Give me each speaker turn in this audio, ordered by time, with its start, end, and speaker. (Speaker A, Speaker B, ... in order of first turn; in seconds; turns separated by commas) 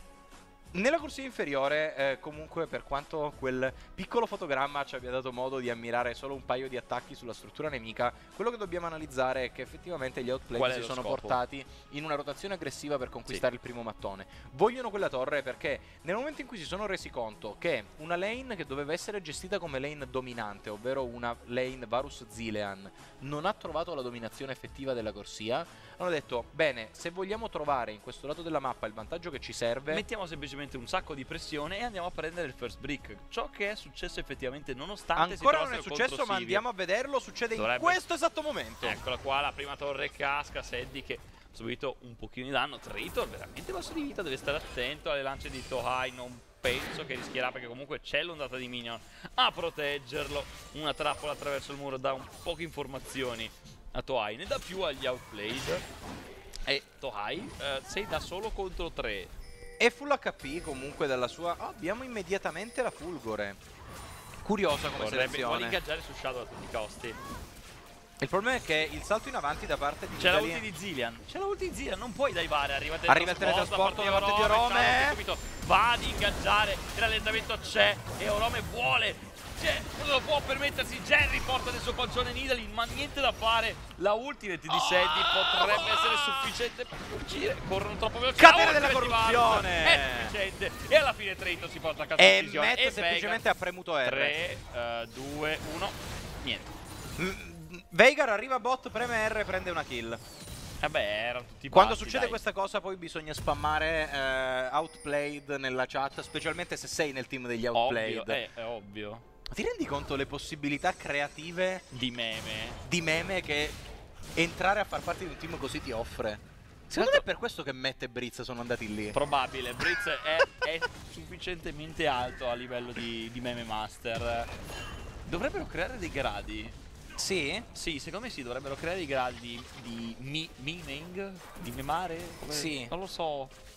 Speaker A: 0.7-30.0, Speaker B: 10.5-11.4, Speaker B: 29.9-36.6, Speaker A: 35.1-39.0, Speaker B: 37.5-38.0, Speaker B: 38.8-55.8, Speaker B: 56.6-59.3, Speaker A: 59.8-63.6, Speaker A: 64.4-65.8, Speaker B: 65.0-67.2, Speaker A: 68.2-70.6, Speaker B: 70.1-93.4, Speaker A: 73.1-75.2, Speaker A: 84.7-86.5, Speaker A: 88.3-90.3, Speaker A: 92.2-94.3, Speaker B: 94.0-96.7, Speaker A: 97.2-100.2, Speaker B: 100.8-102.4, Speaker A: 101.7-108.4, Speaker B: 107.7-109.2, Speaker A: 109.5-111.8, Speaker B: 111.9-112.8, Speaker A: 112.8-113.8, Speaker A: 114.3-119.2, Speaker B: 117.0-117.2, Speaker B: 119.1-124.5, Speaker B: 125.2-126.8, Speaker A: 127.2-127.7, Speaker B: 127.7-133.5, Speaker A: 132.5-132.9